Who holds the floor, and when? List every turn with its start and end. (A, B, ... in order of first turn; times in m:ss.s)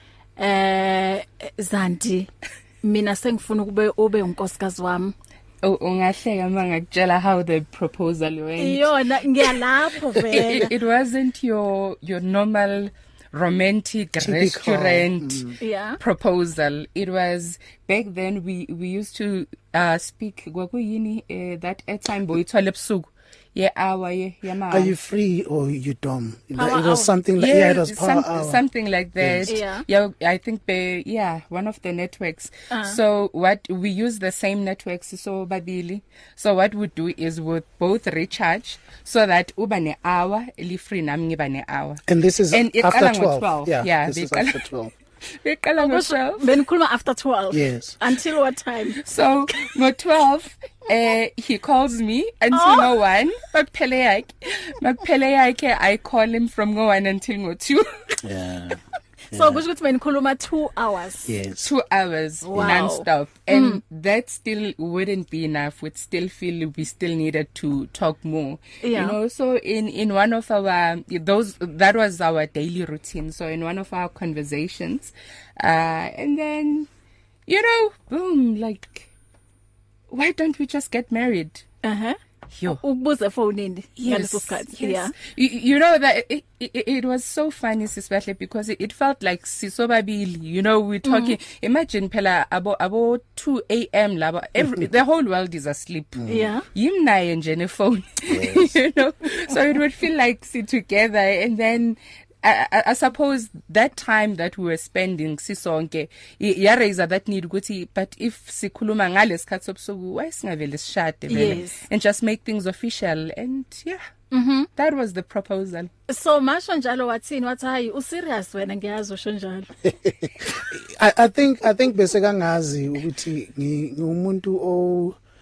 0:00.4-0:02.3 A
0:02.8-0:05.2 A
0:05.6-0:08.9 B
0:08.6-0:10.7 A
0:10.3-0:25.0 B
0:14.2-0:15.5 C
0:15.6-0:16.0 A
0:24.7-0:28.6 C
0:26.6-0:27.1 A
0:27.4-0:44.6 B
0:29.2-0:29.6 C
0:29.5-0:29.8 A
0:32.7-0:33.0 A
0:42.1-0:44.9 C
0:45.3-0:46.5 B
0:45.8-0:49.0 A
0:47.5-0:48.0 C
0:49.0-0:58.2 B
0:52.5-0:52.9 A
0:58.2-0:58.8 C
0:59.3-0:59.6 C
0:59.3-1:01.3 A
1:01.3-1:01.7 C
1:01.6-1:16.9 B
1:02.5-1:03.8 A
1:02.5-1:02.8 C
1:08.8-1:09.2 A
1:17.5-1:19.1 B
1:20.1-1:21.6 B
1:21.8-1:22.2 A
1:22.6-1:22.8 B
1:22.7-1:25.1 A
1:24.0-1:54.0 B
1:31.0-1:31.4 A
1:36.2-1:36.5 C
1:36.3-1:36.6 A
1:38.3-1:38.8 C
1:51.3-1:51.8 A
1:54.3-1:54.7 A
1:54.8-1:55.9 B
1:56.1-1:59.7 A
1:59.8-2:05.2 C